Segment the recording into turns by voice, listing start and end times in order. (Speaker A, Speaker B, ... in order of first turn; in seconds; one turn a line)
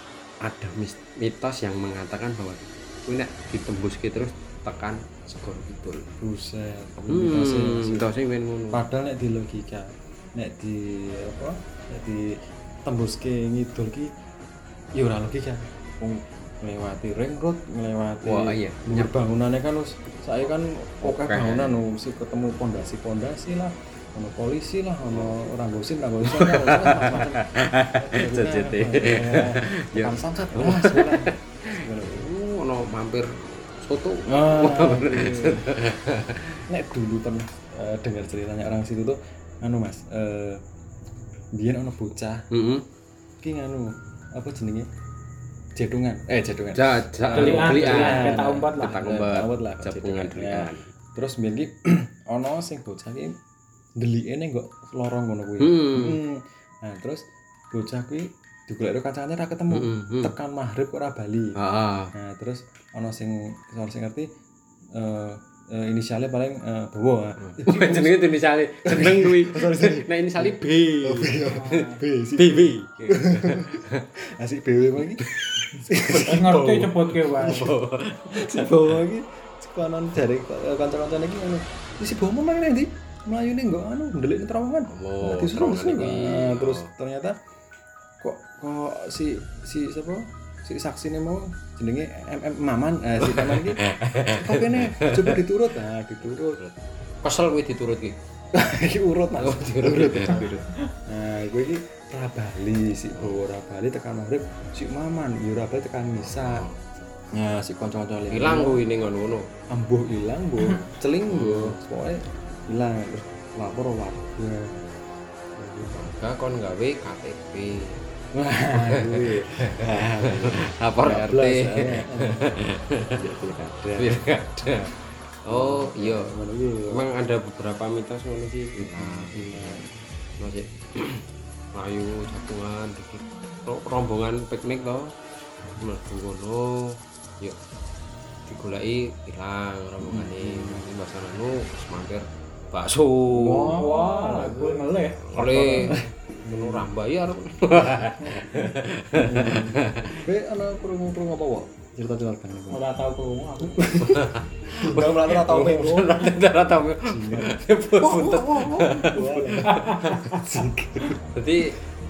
Speaker A: 0.5-6.1
Speaker B: 6.2-8.1
Speaker A: 7.1-8.8
Speaker B: 8.7-12.3
Speaker B: 12.8-14.1
Speaker B: 15.0-32.3
Speaker A: 18.2-19.1
Speaker A: 21.0-21.8
Speaker A: 25.1-25.4
Speaker A: 26.4-36.6
Speaker B: 34.3-35.6
Speaker B: 36.7-40.6
Speaker B: 41.6-42.4
Speaker A: 42.5-42.9
Speaker B: 43.4-44.9
Speaker B: 45.8-53.4
Speaker A: 46.8-50.9
Speaker C: 47.3-49.0
Speaker B: 54.0-61.6
Speaker A: 55.6-56.2
Speaker A: 59.7-60.3
Speaker A: 61.6-62.1
Speaker B: 62.1-64.3
Speaker B: 65.0-68.2
Speaker A: 67.4-71.7
Speaker B: 68.9-75.2
Speaker C: 71.5-72.0
Speaker A: 72.4-74.1
Speaker A: 75.2-75.7
Speaker B: 75.8-77.7
Speaker C: 76.1-77.7
Speaker A: 77.1-78.9
Speaker B: 78.3-87.4
Speaker A: 84.9-86.9
Speaker B: 88.2-93.8
Speaker A: 93.3-95.4
Speaker B: 94.3-96.6
Speaker A: 96.3-98.2
Speaker B: 98.5-106.7
Speaker A: 99.4-100.6
Speaker C: 100.4-100.7
Speaker A: 106.2-106.9
Speaker B: 107.3-108.8
Speaker A: 108.3-109.5
Speaker B: 109.7-114.8
Speaker A: 111.3-111.8
Speaker B: 115.6-116.0
Speaker A: 115.9-118.0
Speaker B: 118.3-122.6
Speaker A: 118.8-119.5
Speaker A: 120.5-123.0
Speaker B: 123.1-124.2
Speaker A: 123.8-126.3
Speaker B: 125.5-127.1
Speaker A: 126.9-129.8
Speaker B: 128.8-130.0
Speaker A: 130.4-135.1
Speaker A: 135.8-137.6
Speaker A: 138.5-143.8
Speaker B: 140.0-140.8
Speaker B: 143.3-146.9
Speaker C: 143.7-145.2
Speaker A: 145.3-146.0
Speaker A: 146.5-150.2
Speaker B: 147.8-152.8
Speaker C: 152.7-153.9
Speaker B: 153.6-154.2
Speaker A: 154.0-160.1
Speaker B: 154.8-156.2
Speaker C: 155.3-156.2
Speaker B: 157.1-161.2
Speaker C: 159.7-160.4
Speaker A: 161.3-161.7